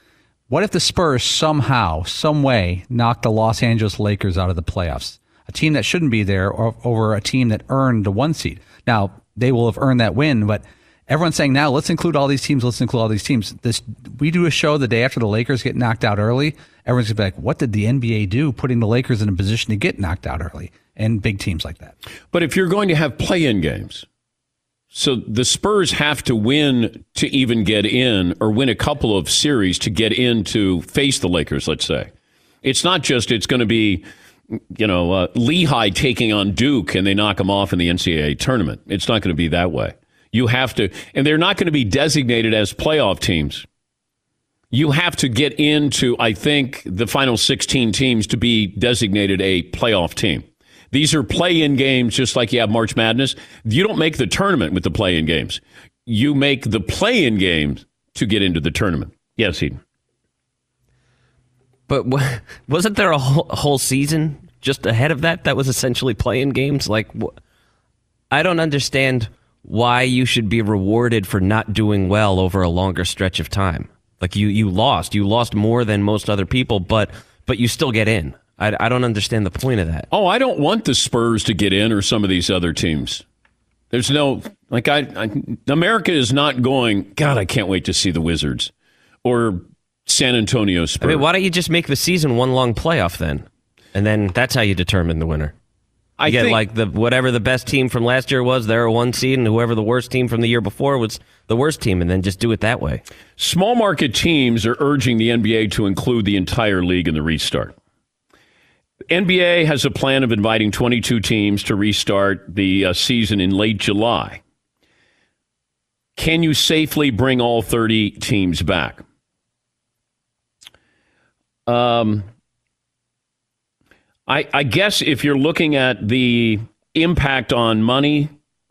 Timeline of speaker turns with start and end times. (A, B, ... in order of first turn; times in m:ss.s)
0:00.5-0:21.9 A
0:22.3-0:24.0 B
0:24.9-0:32.1 B
0:32.6-0:34.0 B
0:34.7-0:43.6 B
0:44.7-0:59.8 B
1:01.9-1:07.4 C
1:08.3-1:20.1 C
1:20.1-1:23.2 B
1:23.9-1:28.7 B
1:29.2-1:31.2 B
1:31.0-1:35.5 C
1:36.2-1:36.6 B
1:36.2-1:43.0 C
1:43.4-1:47.7 B
1:49.1-1:54.4 B
1:56.2-1:59.0 B
2:01.7-2:02.2 B
2:04.3-2:08.3 B